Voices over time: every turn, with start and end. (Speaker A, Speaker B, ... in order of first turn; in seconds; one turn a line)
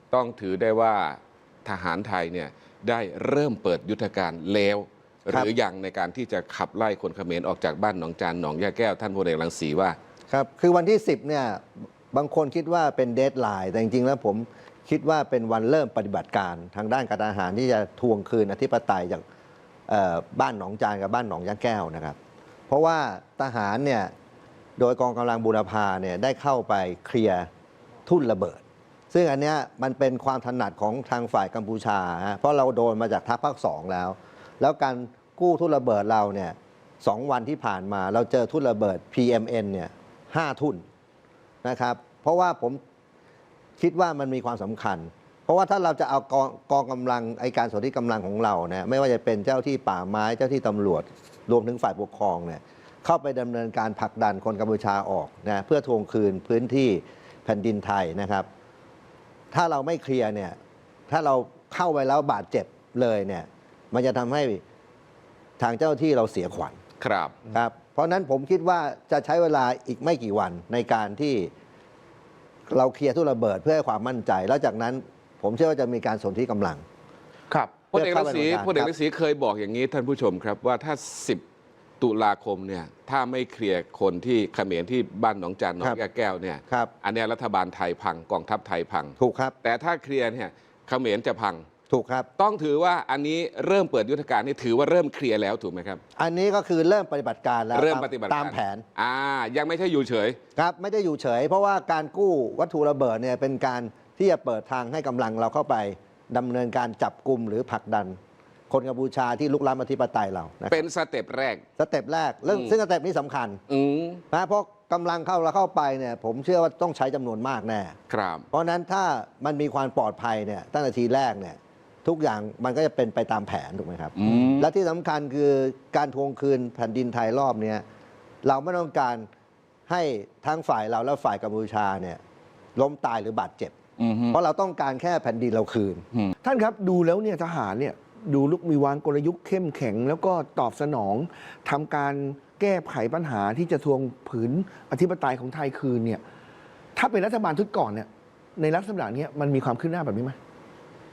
Speaker A: 0.1-10.0
Speaker B: 10.3-19.2
Speaker B: 19.9-22.2
Speaker B: 22.7-24.1
Speaker B: 24.8-27.5
Speaker B: 28.1-40.8
Speaker B: 41.6-42.8
Speaker B: 43.8-58.5
Speaker B: 59.5-60.6
Speaker B: 61.1-64.6
Speaker B: 65.6-66.8
Speaker A: 67.0-67.3
Speaker B: 67.5-71.5
Speaker B: 72.7-76.8
Speaker C: 77.5-77.8
Speaker A: 77.9-81.4
Speaker B: 77.9-78.9
Speaker A: 82.0-91.7
Speaker B: 89.2-89.5
Speaker B: 91.9-92.3
Speaker A: 92.4-96.0
Speaker B: 96.2-98.8
Speaker A: 97.7-100.4
Speaker B: 100.5-108.2
Speaker B: 108.7-110.8
Speaker A: 110.7-111.6
Speaker B: 111.8-113.6
Speaker A: 113.7-114.2
Speaker B: 114.3-118.0
Speaker A: 118.1-118.5
Speaker B: 118.5-127.8
Speaker A: 124.2-124.7
Speaker B: 128.4-129.3
Speaker B: 129.9-132.2
Speaker B: 132.8-133.7
Speaker A: 134.0-134.4
Speaker B: 134.3-136.0
Speaker C: 136.4-146.2
Speaker C: 146.9-150.3